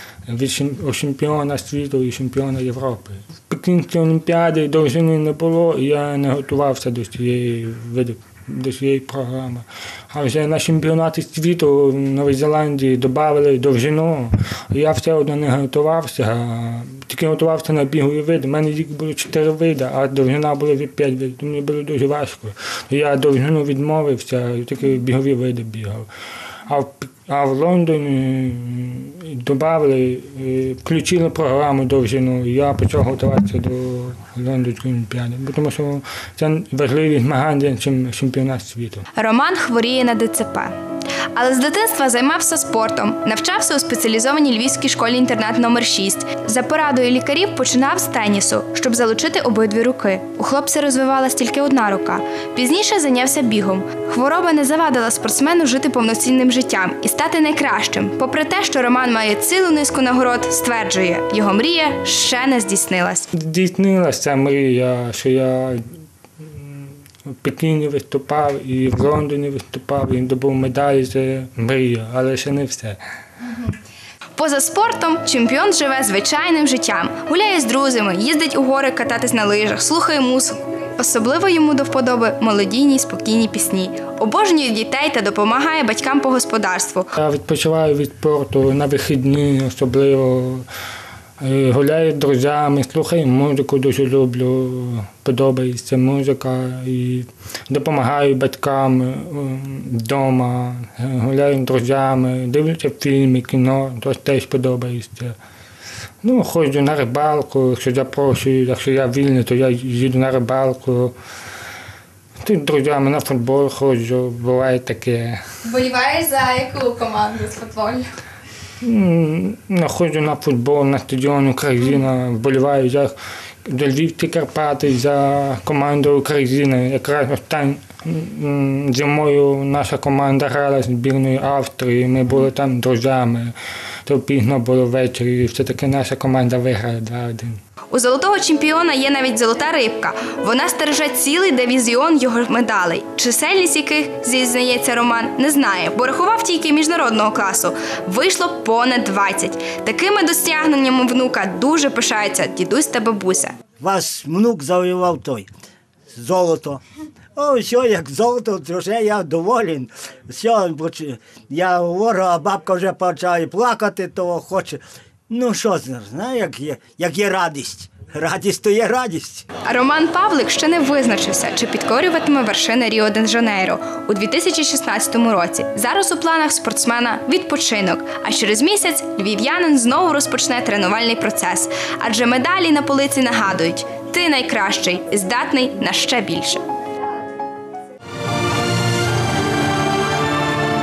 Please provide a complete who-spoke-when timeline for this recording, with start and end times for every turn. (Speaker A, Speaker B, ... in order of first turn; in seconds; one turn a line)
Speaker A: 0.3-26.1
Speaker A: 26.7-39.0
Speaker B: 39.2-40.8
Speaker B: 41.3-63.3
Speaker A: 63.3-73.0
Speaker B: 74.4-87.1
Speaker A: 87.2-90.7
Speaker A: 91.4-105.3
Speaker A: 106.2-111.2
Speaker A: 112.4-115.4
Speaker B: 115.7-118.1
Speaker A: 118.8-123.1
Speaker A: 123.7-137.6
Speaker B: 137.9-153.6
Speaker C: 153.8-155.5
Speaker C: 156.1-156.8
Speaker C: 157.4-169.5
Speaker B: 169.6-186.6